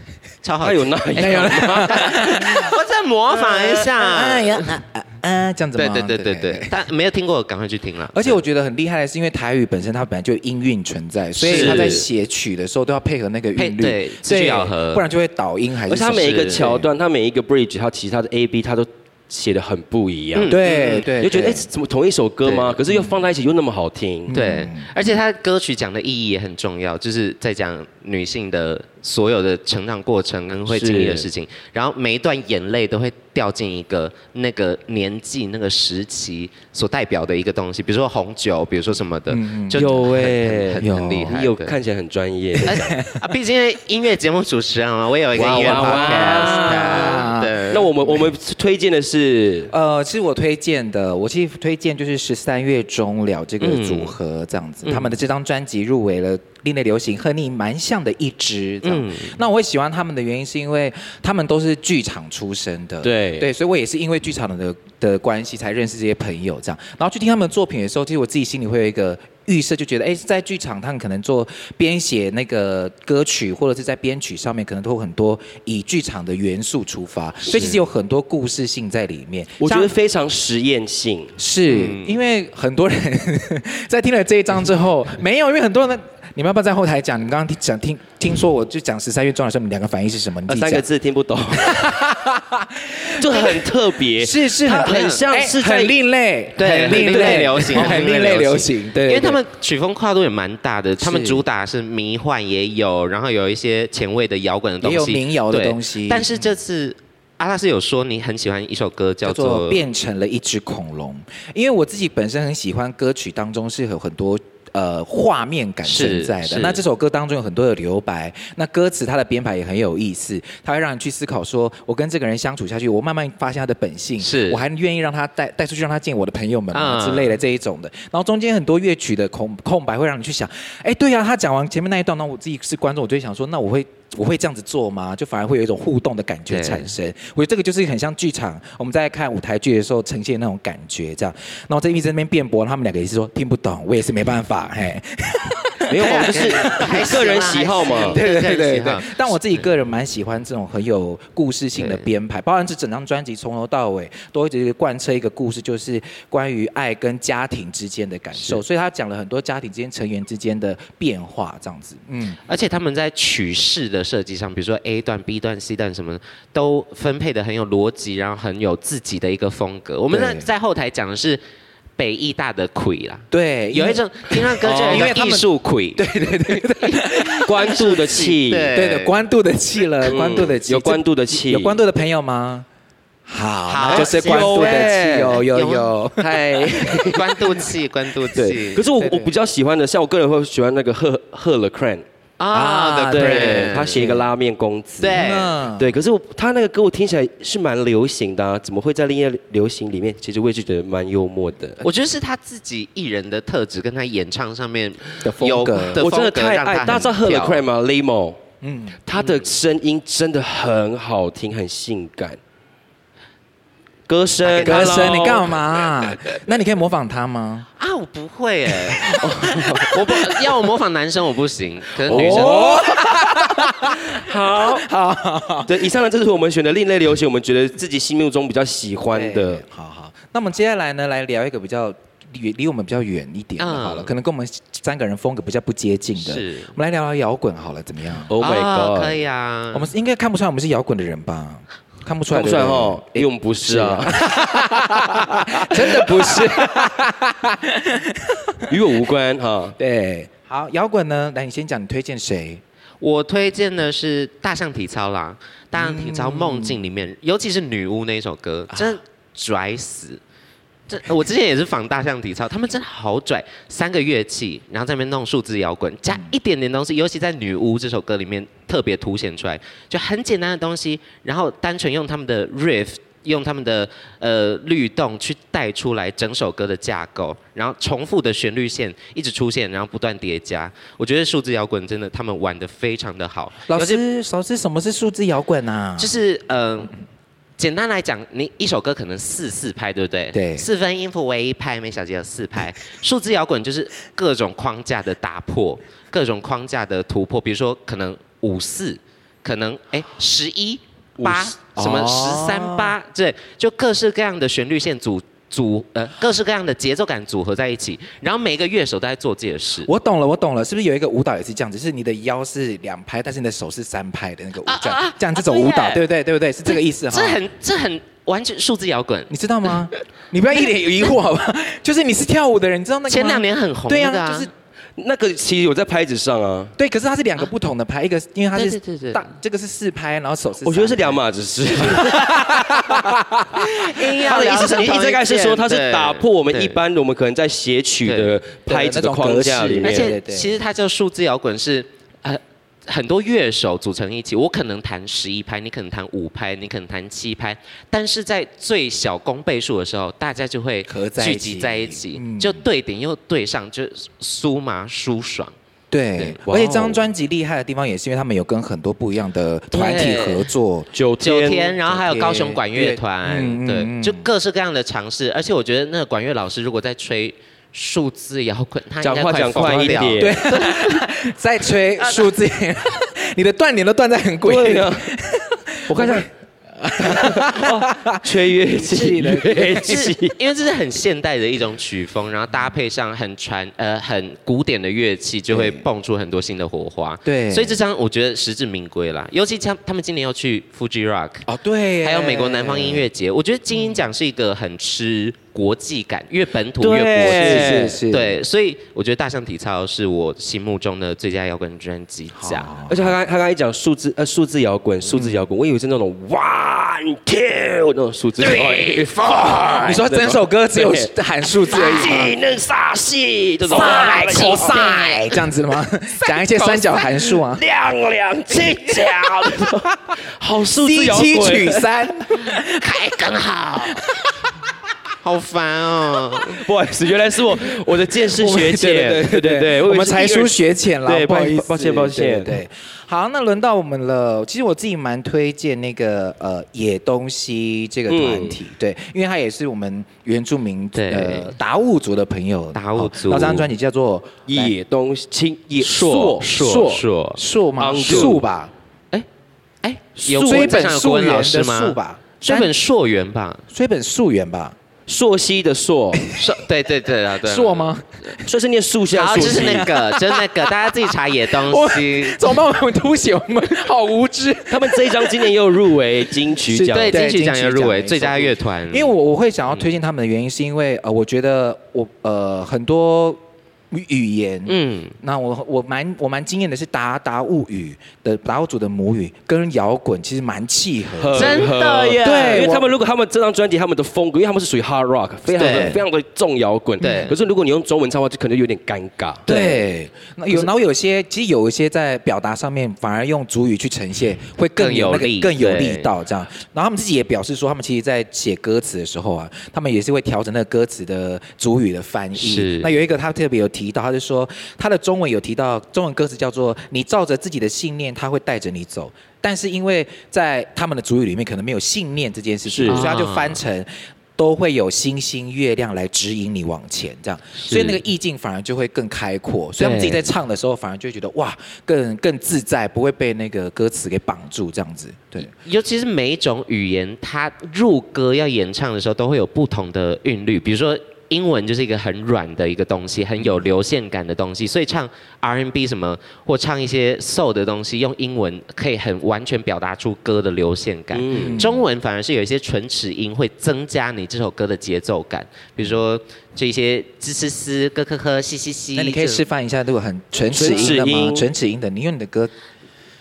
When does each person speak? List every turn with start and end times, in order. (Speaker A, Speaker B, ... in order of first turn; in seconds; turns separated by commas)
Speaker A: 0.4-4.7, Speaker B: 0.6-2.6, Speaker C: 1.1-2.7, Speaker B: 3.5-3.9, Speaker C: 3.9-6.7, Speaker A: 5.8-8.4, Speaker C: 8.1-16.9, Speaker B: 11.4-12.0, Speaker A: 11.4-12.1, Speaker A: 13.6-15.1, Speaker B: 15.9-24.3, Speaker A: 16.2-16.7, Speaker A: 20.4-21.1, Speaker C: 20.5-21.7, Speaker A: 22.4-22.8, Speaker C: 22.9-23.2, Speaker C: 24.3-24.9, Speaker A: 24.3-41.8, Speaker B: 30.7-31.3, Speaker C: 39.3-40.2, Speaker B: 39.7-42.8, Speaker C: 40.8-41.4, Speaker C: 42.5-43.2, Speaker A: 42.7-47.9, Speaker B: 45.4-49.7, Speaker C: 45.4-48.3, Speaker C: 49.7-79.9, Speaker A: 53.6-54.1, Speaker A: 54.8-55.1, Speaker A: 58.8-59.4, Speaker B: 63.0-63.5, Speaker B: 79.6-81.4, Speaker C: 81.4-90.9, Speaker A: 81.7-82.2, Speaker B: 90.5-91.9, Speaker C: 91.5-93.6, Speaker B: 93.1-96.0, Speaker C: 94.2-99.4, Speaker A: 94.7-95.2, Speaker A: 96.6-109.8, Speaker B: 96.9-98.0, Speaker C: 101.0-101.4, Speaker C: 104.8-106.3, Speaker C: 109.2-147.2, Speaker A: 115.8-116.8, Speaker A: 124.2-124.6, Speaker A: 126.7-127.3, Speaker A: 136.5-136.9, Speaker B: 145.9-148.2, Speaker A: 145.9-149.3, Speaker C: 147.9-162.4, Speaker A: 151.8-152.0, Speaker A: 162.5-171.4, Speaker C: 170.1-170.5, Speaker A: 172.0-176.1, Speaker C: 173.3-177.5, Speaker B: 174.7-175.1, Speaker A: 176.7-179.2, Speaker B: 177.4-178.7, Speaker C: 178.7-182.7, Speaker B: 180.0-181.8, Speaker C: 183.3-187.1, Speaker A: 183.7-185.9, Speaker B: 183.9-185.4, Speaker B: 186.2-187.6, Speaker A: 187.1-188.8, Speaker B: 188.3-192.0, Speaker C: 188.9-189.3, Speaker A: 192.4-194.0, Speaker C: 192.5-194.3, Speaker B: 193.1-195.2, Speaker A: 195.0-195.5, Speaker C: 195.1-196.0, Speaker B: 195.8-201.8, Speaker A: 201.8-207.6, Speaker C: 205.2-206.0, Speaker B: 205.9-208.4, Speaker C: 208.6-209.0, Speaker B: 209.1-212.4, Speaker A: 209.2-209.5, Speaker B: 214.1-215.6, Speaker A: 214.4-215.2, Speaker C: 214.6-217.7, Speaker A: 217.8-222.8, Speaker B: 219.1-220.0, Speaker C: 219.1-219.9, Speaker B: 222.1-224.9, Speaker C: 222.1-225.7, Speaker B: 225.7-229.6, Speaker C: 229.1-238.3, Speaker A: 233.6-234.1, Speaker A: 236.2-236.8, Speaker B: 238.3-239.2, Speaker A: 238.4-239.9, Speaker C: 239.7-248.9, Speaker B: 242.3-244.3, Speaker B: 245.1-246.6, Speaker B: 248.7-249.8, Speaker C: 249.8-252.6, Speaker A: 253.0-260.2, Speaker C: 255.7-256.8, Speaker A: 260.9-284.0, Speaker C: 283.7-286.1, Speaker A: 286.0-286.9, Speaker A: 287.6-309.9, Speaker C: 290.3-290.6, Speaker B: 301.2-301.5, Speaker C: 301.8-302.9, Speaker C: 309.9-317.4, Speaker A: 314.6-316.0, Speaker A: 316.7-319.3, Speaker C: 319.3-324.5, Speaker A: 323.1-324.5, Speaker B: 325.0-326.8, Speaker C: 326.8-331.2, Speaker A: 328.6-329.3, Speaker B: 330.6-333.2, Speaker C: 331.8-333.6, Speaker A: 333.6-336.8, Speaker B: 333.9-340.1, Speaker A: 338.1-338.4, Speaker C: 338.7-340.6, Speaker A: 339.8-355.5, Speaker C: 350.9-352.6, Speaker C: 355.9-360.9, Speaker B: 356.4-357.0, Speaker A: 359.7-360.5, Speaker B: 360.9-361.8, Speaker A: 361.2-371.0, Speaker C: 361.9-364.2, Speaker B: 369.0-370.5, Speaker C: 370.2-376.3, Speaker A: 372.0-372.3, Speaker B: 374.4-375.1, Speaker B: 375.9-376.3, Speaker C: 376.8-380.0, Speaker B: 377.0-380.4, Speaker A: 379.7-391.5, Speaker C: 385.5-385.8, Speaker C: 387.2-387.8, Speaker C: 391.5-393.1, Speaker A: 392.0-402.7, Speaker B: 396.8-398.0, Speaker C: 397.2-398.4, Speaker C: 402.4-403.2, Speaker B: 402.9-411.1, Speaker C: 405.1-405.4, Speaker C: 408.4-409.1, Speaker C: 409.8-412.4, Speaker B: 411.6-415.0, Speaker A: 413.7-415.2, Speaker C: 413.7-417.6, Speaker B: 416.5-421.9, Speaker C: 420.7-422.9, Speaker A: 422.4-424.1, Speaker C: 423.9-424.5, Speaker A: 425.2-426.6, Speaker B: 426.5-432.6, Speaker C: 428.2-444.8, Speaker B: 438.1-438.6, Speaker A: 440.9-441.5, Speaker A: 442.8-443.7, Speaker B: 444.5-446.5, Speaker C: 445.8-448.7, Speaker A: 446.1-447.4, Speaker B: 447.8-448.4, Speaker A: 449.8-453.6, Speaker B: 450.2-450.8, Speaker C: 450.3-452.7, Speaker C: 453.7-454.8, Speaker B: 455.1-456.3, Speaker C: 456.2-456.4, Speaker A: 456.4-457.8, Speaker C: 457.4-458.5, Speaker B: 458.5-459.9, Speaker A: 459.1-462.5, Speaker C: 459.3-460.9, Speaker C: 461.5-465.6, Speaker B: 464.7-467.2, Speaker C: 466.7-481.7, Speaker A: 466.9-469.1, Speaker A: 474.7-475.1, Speaker B: 481.2-489.5, Speaker A: 481.3-482.7, Speaker C: 482.2-482.9, Speaker A: 485.6-486.0, Speaker A: 487.0-487.3, Speaker C: 487.0-487.3, Speaker A: 489.5-489.8, Speaker C: 489.5-525.5, Speaker A: 494.8-496.1, Speaker A: 502.4-502.9, Speaker B: 512.7-513.1, Speaker A: 512.9-513.6, Speaker A: 517.6-517.9, Speaker A: 519.8-520.2, Speaker A: 525.4-549.5, Speaker B: 541.1-541.6, Speaker C: 541.3-541.9, Speaker C: 549.0-552.5, Speaker B: 550.5-551.5